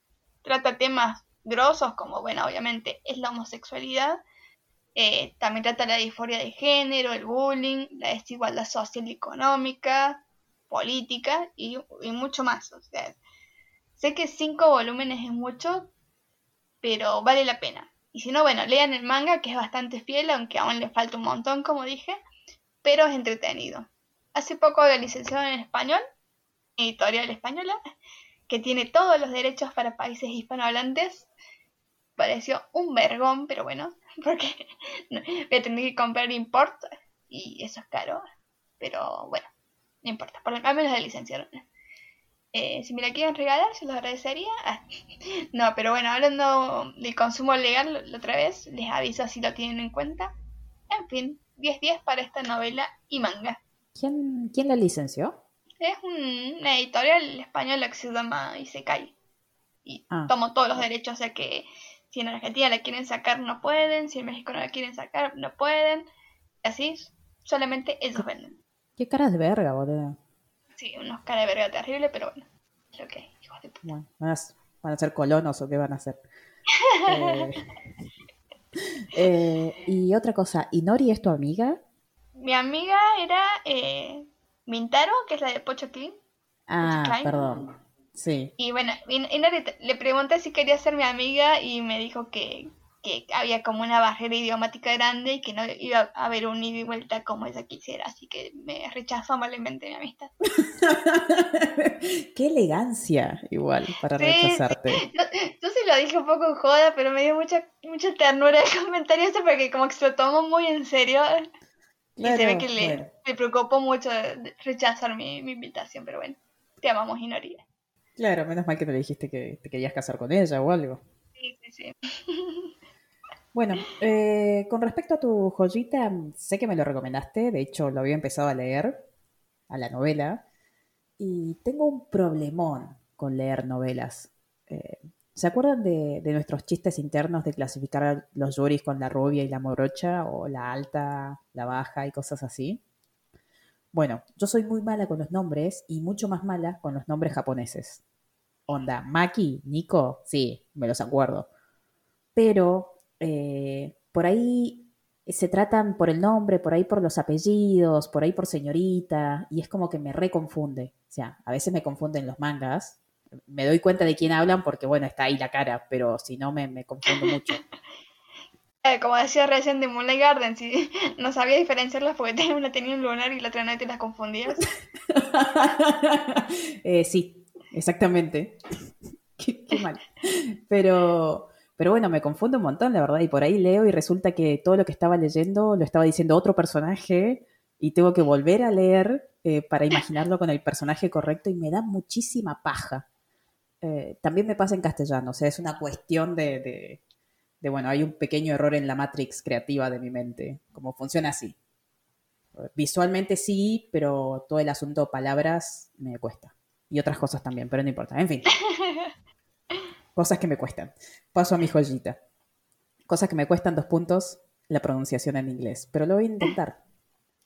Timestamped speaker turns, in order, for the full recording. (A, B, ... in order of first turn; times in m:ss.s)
0:00.4-0:04.2 A
0:04.9-0:13.2 A
0:14.0-0:15.9 A
0:16.8-0:22.2 A
0:22.8-0:26.0 A
0:26.8-0:27.8 A
0:28.5-0:31.3 A
0:32.2-0:38.2 A
0:38.8-0:39.5 A
0:40.0-0:41.6 A
0:42.5-0:44.8 A
0:45.5-0:50.3 A
0:50.9-0:53.6 A
0:54.0-0:55.4 B
0:55.8-0:59.1 A
0:59.8-1:06.1 A
1:06.6-1:08.6 A
1:09.0-1:10.2 B
1:10.8-1:13.8 A
1:13.8-1:16.2 B
1:17.0-1:17.6 B
1:17.2-1:17.5 A
1:19.1-1:21.8 B
1:22.4-1:26.1 A
1:26.7-1:28.5 B
1:26.8-1:27.6 A
1:28.6-1:40.3 A
1:40.5-1:45.0 B
1:44.2-1:51.4 A
1:52.2-1:53.1 B
1:52.2-1:57.6 A
1:58.2-2:01.0 B
2:01.4-2:02.7 A
2:03.5-2:09.1 B
2:09.7-2:10.4 B
2:11.2-2:22.8 B
2:23.9-2:28.0 B
2:28.7-2:31.5 B
2:32.3-2:47.6 B
2:48.8-2:54.7 A
2:55.1-2:58.6 B
2:59.4-3:13.0 B
3:13.8-3:17.0 B
3:17.6-3:21.6 B
3:22.5-3:28.5 B
3:28.6-3:29.1 A
3:30.1-3:32.2 B
3:33.1-3:36.8 B